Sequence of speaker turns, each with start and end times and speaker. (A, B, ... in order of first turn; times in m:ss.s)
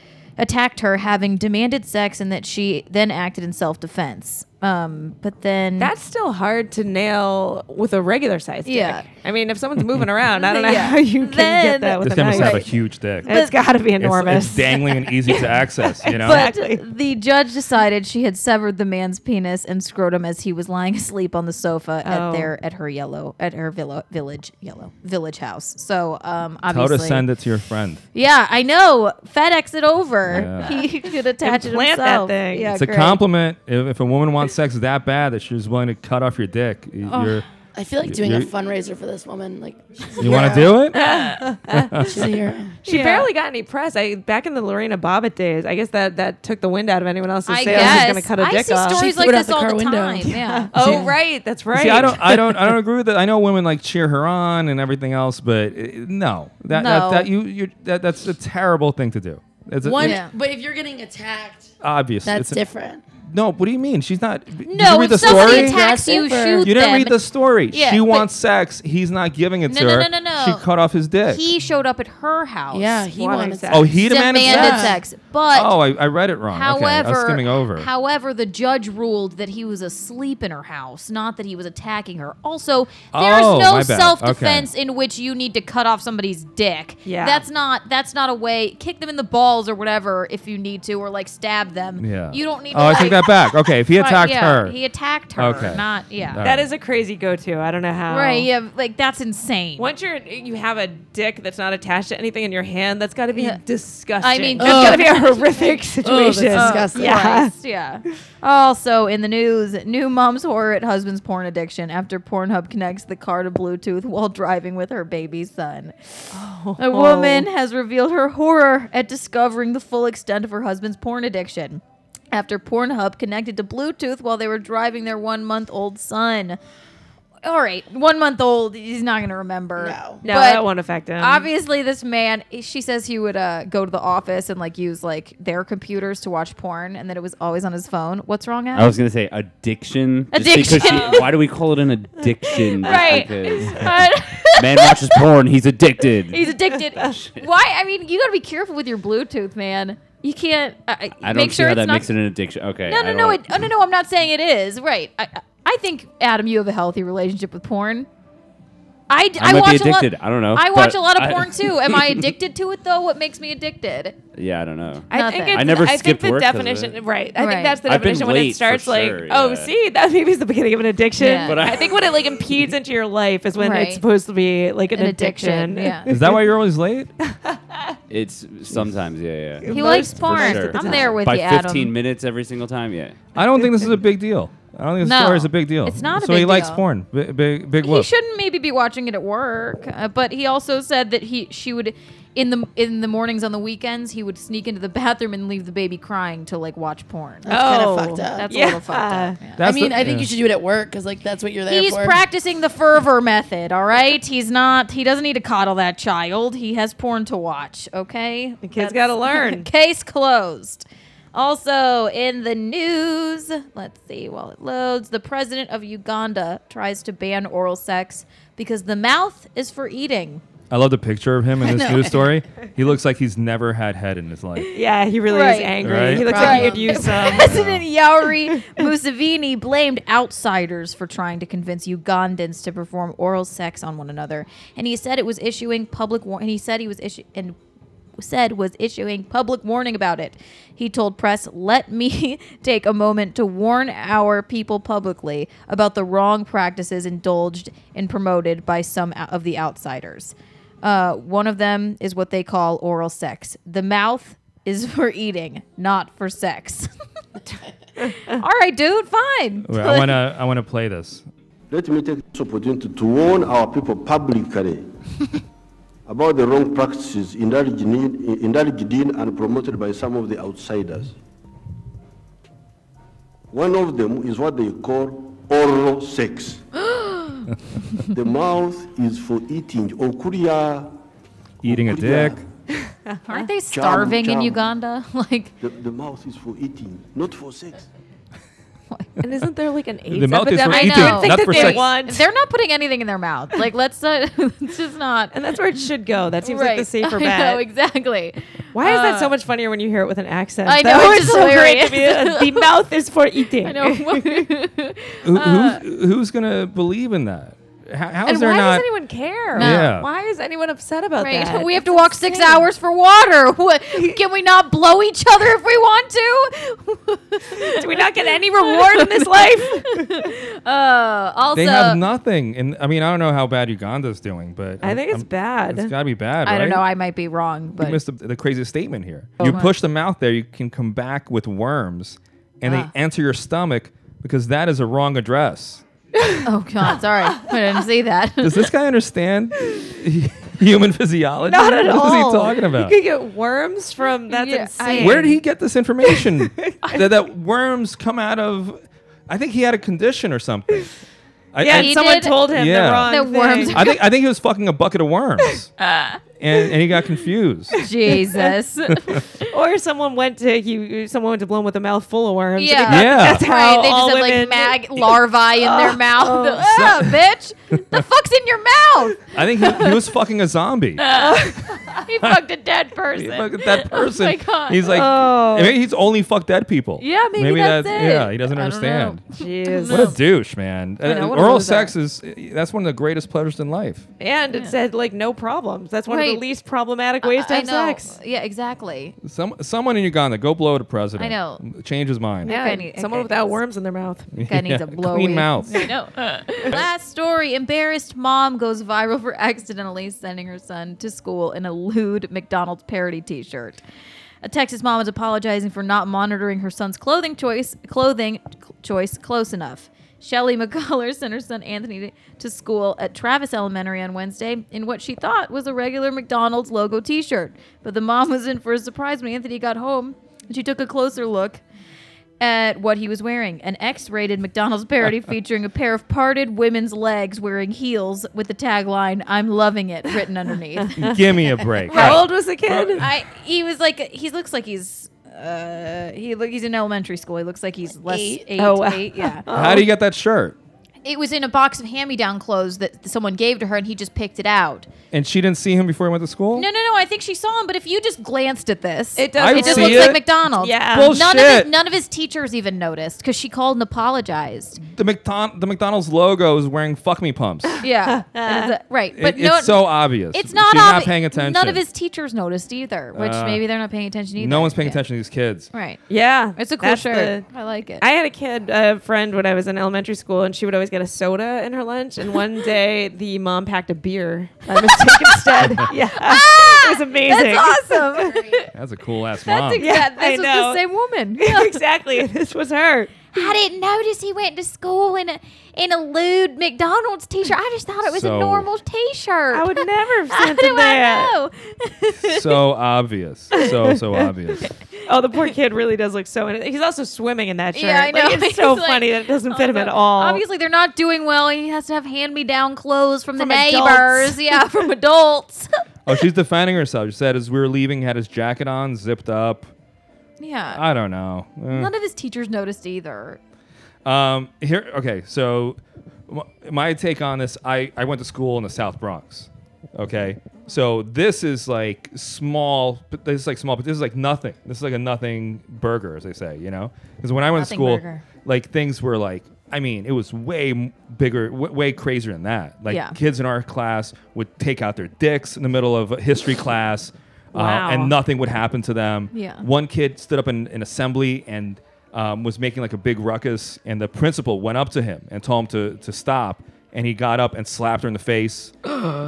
0:00.4-0:05.9 A
0:05.8-0:12.7 B
0:08.6-0:09.1 A
0:10.3-0:12.7 A
0:12.0-0:13.3 C
0:13.2-0:16.8 B
0:13.3-0:13.5 A
0:14.0-0:16.4 C
0:16.2-0:27.2 A
0:22.0-0:22.5 B
0:26.7-0:28.0 C
0:28.1-0:33.2 A
0:30.3-0:30.8 C
0:31.4-0:32.7 B
0:32.7-0:37.4 C
0:37.1-0:37.4 A
0:37.7-0:40.8 D
0:38.0-0:38.5 C
0:40.2-0:41.1 C
0:40.9-0:42.2 B
0:41.7-0:42.3 C
0:41.9-0:42.8 D
0:42.8-0:49.1 B
0:42.8-0:43.3 A
0:47.5-0:51.0 A
0:47.6-0:48.1 D
0:48.9-0:51.1 D
0:50.3-0:52.5 B
0:51.7-1:00.2 C
0:56.7-0:57.3 A
0:59.8-1:01.7 D
1:00.0-1:00.3 A
1:01.8-1:02.6 C
1:02.2-1:03.0 D
1:03.3-1:11.4 C
1:04.6-1:08.3 A
1:05.2-1:06.7 D
1:09.7-1:10.6 A
1:11.2-1:13.1 A
1:12.7-1:15.0 D
1:13.1-1:14.0 B
1:13.7-1:15.0 C
1:14.0-1:15.8 A
1:15.5-1:17.9 C
1:16.5-1:33.3 A
1:23.1-1:24.7 C
1:27.0-1:27.4 B
1:32.0-1:34.7 C
1:33.9-1:36.4 A
1:35.4-1:36.6 C
1:36.4-1:38.5 B
1:38.1-1:39.9 A
1:39.8-1:47.5 B
1:43.3-1:43.6 A
1:44.2-1:45.8 A
1:44.6-1:45.2 D
1:46.0-1:47.3 D
1:46.5-2:06.6 A
1:56.3-1:57.5 B
2:07.4-2:10.7 A
2:09.8-2:10.2 D
2:10.2-2:11.5 B
2:11.2-2:18.9 A
2:18.7-2:24.0 E
2:20.3-2:21.3 A
2:20.9-2:21.2 B
2:22.5-2:23.8 B
2:22.8-2:25.2 A
2:24.5-2:27.5 E
2:26.3-2:32.1 A
2:31.2-2:33.6 E
2:32.8-2:38.1 A
2:39.1-2:44.2 A
2:39.4-2:42.3 E
2:44.3-2:47.0 E
2:45.1-2:56.4 B
2:45.1-2:45.7 A
2:47.4-2:47.8 A
2:47.8-2:49.7 E
2:51.2-2:51.6 A
2:51.4-2:52.4 E
2:53.6-2:54.0 A
2:54.9-2:56.1 A
2:56.1-2:57.1 C
2:57.3-2:58.0 B
2:58.1-3:03.2 E
2:59.6-3:01.2 B
2:59.7-3:01.9 A
3:03.3-3:08.1 C
3:05.0-3:06.8 A
3:07.8-3:17.5 A
3:17.4-3:18.5 D
3:17.5-3:19.4 B
3:18.3-3:19.6 A
3:19.6-3:20.3 C
3:19.6-3:22.2 D
3:21.7-3:40.4 A
3:28.6-3:29.7 B
3:40.7-3:44.7 C
3:41.6-3:42.1 A
3:44.7-3:47.6 B
3:45.3-3:57.6 A
3:45.8-3:46.5 C
3:46.2-3:47.2 D
3:47.3-3:47.8 C
3:58.2-4:16.9 A
4:18.0-4:18.4 B
4:18.0-4:20.2 A
4:19.7-4:21.2 C
4:21.7-4:24.9 F
4:26.0-4:31.1 F
4:33.5-4:36.6 F
4:36.8-4:37.5 A
4:38.1-4:40.9 F
4:41.6-4:42.4 C
4:41.7-4:42.4 F
4:42.8-4:43.5 B
4:43.3-4:45.5 A
4:43.7-4:44.6 F
4:45.6-4:47.9 F
4:49.2-4:52.2 B
4:50.1-4:51.8 C
4:50.6-4:55.4 A
4:55.3-4:57.6 B
4:56.4-4:59.3 A
4:58.7-5:04.5 B
5:00.6-5:02.7 A
5:03.6-5:05.8 A
5:05.2-5:08.8 C
5:08.2-5:12.7 B
5:09.6-5:09.9 A
5:09.6-5:10.1 C
5:11.2-5:18.0 A
5:17.7-5:20.2 B
5:18.6-5:22.0 A
5:21.5-5:26.8 C
5:24.8-5:25.9 B
5:26.4-5:28.0 A
5:27.8-5:35.8 C
5:29.4-5:29.7 B
5:29.4-5:29.7 A
5:32.6-5:32.9 A
5:36.2-5:37.6 B
5:36.4-5:38.7 A
5:38.4-5:42.9 C
5:41.4-5:45.4 B
5:44.3-5:45.3 A
5:44.8-5:51.0 C
5:46.0-5:46.9 B
5:51.5-5:53.1 C
5:51.6-5:54.0 B
5:51.7-5:52.5 A
5:53.0-5:53.9 A
5:53.7-5:55.7 C
5:55.8-5:56.2 A
5:56.4-5:57.8 C
5:57.8-5:59.5 A
5:57.8-5:58.5 B
5:59.4-6:06.9 B
6:02.6-6:09.9 A
6:02.9-6:03.4 C
6:06.7-6:07.1 C
6:09.3-6:11.0 C
6:11.0-6:15.0 A
6:11.1-6:12.0 B
6:13.2-6:19.2 C
6:14.9-6:15.8 B
6:17.0-6:20.2 A
6:19.4-6:20.2 B
6:19.9-6:24.0 C
6:21.0-6:21.9 A
6:21.1-6:21.9 B
6:24.2-6:28.1 B
6:26.1-6:26.4 A
6:27.2-6:29.2 A
6:29.2-6:32.5 C
6:31.2-6:31.6 A
6:32.4-6:33.6 A
6:32.4-6:34.3 B
6:34.3-6:35.9 C
6:34.4-6:43.8 A
6:44.4-7:01.6 A
7:02.4-7:11.2 A
7:10.8-7:11.2 B
7:11.0-7:13.1 C
7:11.8-7:12.2 A
7:11.9-7:13.1 B
7:13.0-7:19.4 A
7:18.1-7:18.4 D
7:18.6-7:19.9 B
7:19.5-7:20.6 C
7:21.0-7:24.9 A
7:25.1-7:26.7 C
7:26.5-7:34.8 A
7:29.2-7:31.1 B
7:29.4-7:30.2 C
7:30.9-7:31.7 C
7:34.9-7:37.8 C
7:37.7-7:38.7 B
7:37.8-7:45.0 A
7:39.2-7:41.8 C
7:43.1-7:43.6 C
7:44.4-7:45.7 C
7:45.7-7:46.0 A
7:46.1-7:47.4 B
7:46.6-7:48.0 A
7:48.0-7:58.4 B
7:55.1-7:58.7 A
7:58.7-7:59.8 C
7:59.4-8:01.8 A
7:59.8-8:00.8 B
8:01.4-8:03.4 B
8:03.3-8:12.5 A
8:08.0-8:08.6 C
8:09.5-8:11.3 B
8:12.2-8:14.7 C
8:13.6-8:14.3 B
8:15.0-8:20.4 B
8:17.7-8:26.2 A
8:23.4-8:24.6 B
8:26.0-8:29.7 C
8:30.4-8:30.8 A
8:30.7-8:31.9 C
8:31.7-8:33.4 A
8:34.0-9:08.8 C
8:47.5-8:48.2 A
8:52.9-8:53.2 A
8:57.5-8:58.2 B
8:59.3-8:59.6 A